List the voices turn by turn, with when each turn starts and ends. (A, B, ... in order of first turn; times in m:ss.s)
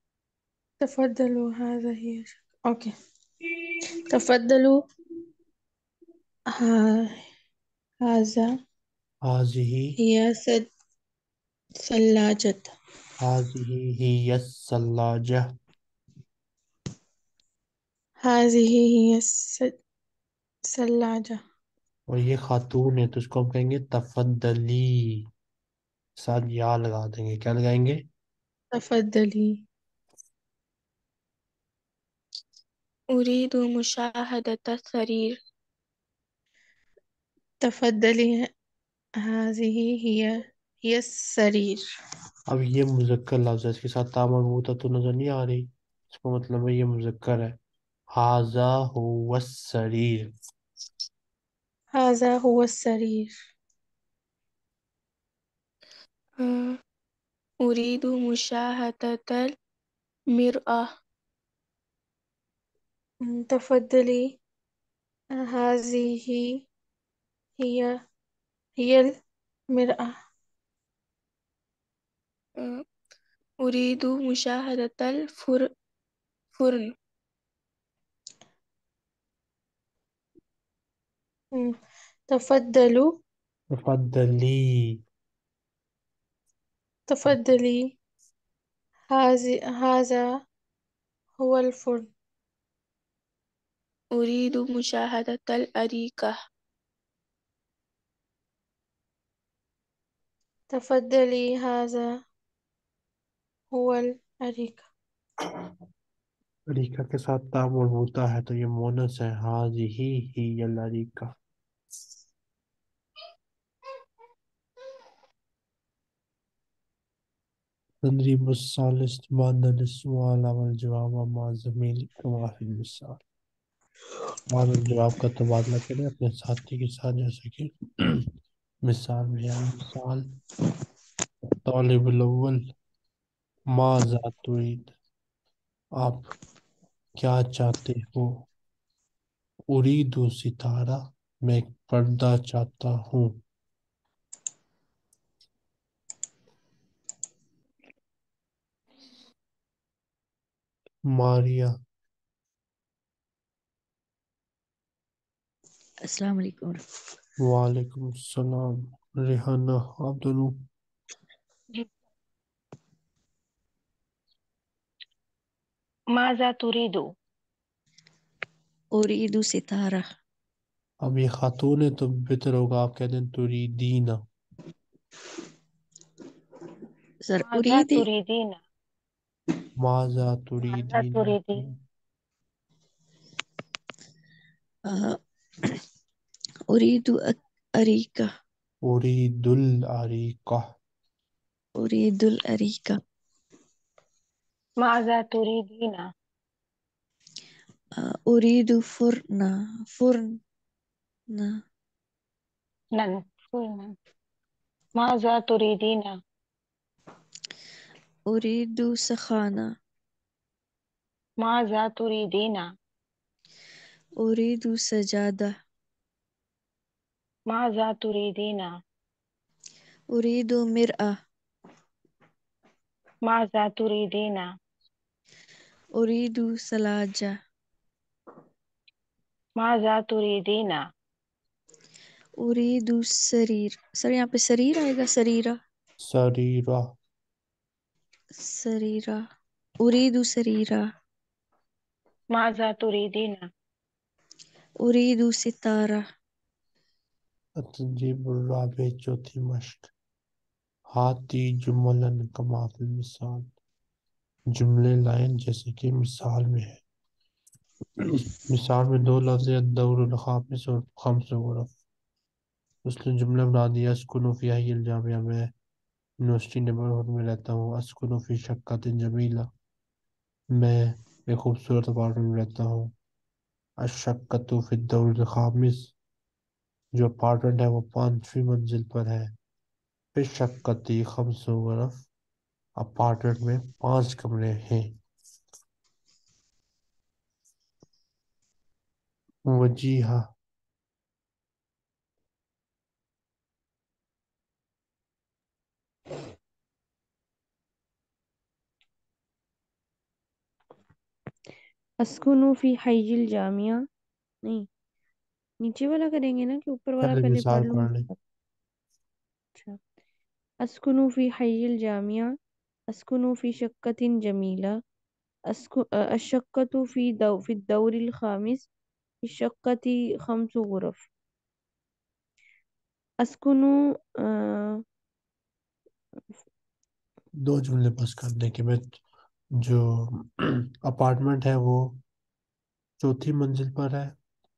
0:00.8-0:02.9 A
0:04.1-0:04.8 A
0:06.6-0:07.2 A
0:08.0-0:08.5 A
0:09.2-0:09.9 B
0:10.0-0:10.7 A
0:11.8-0:12.7 A
0:13.2-0:15.4 B
0:18.2-0:19.7 A
0:20.7-0:21.4 A
0:22.1-0:25.2 B
0:26.2-0:28.0 B
0:28.7-0:29.6 A
0:33.1-0:35.3 C
0:37.6-0:38.5 A
0:39.2-0:41.8 A
0:42.5-0:47.6 B
0:48.1-0:50.3 B
0:51.9-0:53.3 A
0:56.4-0:56.8 C
0:57.6-0:59.5 C
1:00.3-1:00.8 C
1:03.2-1:04.3 A
1:05.4-1:06.6 A
1:07.6-1:08.0 A
1:08.8-1:09.1 A
1:09.7-1:10.2 A
1:13.6-1:15.6 C
1:16.6-1:16.9 C
1:22.3-1:23.2 A
1:23.7-1:25.0 B
1:27.1-1:27.9 A
1:29.1-1:30.4 A
1:31.4-1:32.1 A
1:34.2-1:36.3 C
1:40.7-1:42.2 A
1:43.7-1:44.8 A
1:46.7-1:51.3 B
1:58.0-2:03.2 B
2:04.5-2:08.2 B
2:08.8-2:10.3 B
2:11.6-2:12.6 B
2:13.7-2:14.9 B
2:16.0-2:16.3 B
2:17.2-2:18.4 B
2:19.7-2:23.4 B
2:31.1-2:31.7 B
2:36.0-2:36.8 D
2:37.4-2:40.6 B
2:46.1-2:47.0 E
2:48.9-2:50.0 D
2:51.0-2:54.2 B
2:57.3-2:58.0 D
2:57.4-2:58.6 E
2:59.8-3:01.7 B
3:00.7-3:01.6 E
3:04.8-3:05.8 D
3:06.7-3:08.3 D
3:08.8-3:10.6 B
3:11.8-3:13.0 D
3:14.8-3:16.0 E
3:18.0-3:20.4 D
3:21.3-3:21.6 D
3:23.0-3:23.9 E
3:25.0-3:26.1 E
3:28.3-3:29.7 D
3:31.4-3:32.6 E
3:34.2-3:35.5 D
3:37.5-3:38.7 E
3:40.1-3:41.2 D
3:43.3-3:44.4 E
3:46.0-3:47.4 D
3:49.6-3:50.8 E
3:52.4-3:55.6 D
3:56.0-3:56.8 B
3:58.3-3:59.2 D
3:59.8-4:00.9 D
4:02.3-4:03.4 E
4:04.8-4:06.0 D
4:07.6-4:09.9 B
4:10.9-4:13.5 B
4:14.5-4:16.8 B
4:18.1-4:21.7 B
4:22.8-4:25.5 B
4:26.2-4:29.5 B
4:30.5-4:32.9 B
4:33.8-4:35.9 B
4:36.9-4:39.3 B
4:40.1-4:41.9 B
4:42.8-4:44.9 B
4:49.5-4:50.2 B
5:02.0-5:03.8 F
5:05.6-5:08.2 F
5:07.0-5:08.1 B
5:10.6-5:12.3 F
5:12.9-5:14.8 F
5:15.5-5:18.7 F
5:19.2-5:21.0 F
5:23.2-5:24.8 F
5:27.4-5:29.0 B
5:29.6-5:32.0 B
5:33.0-5:34.1 B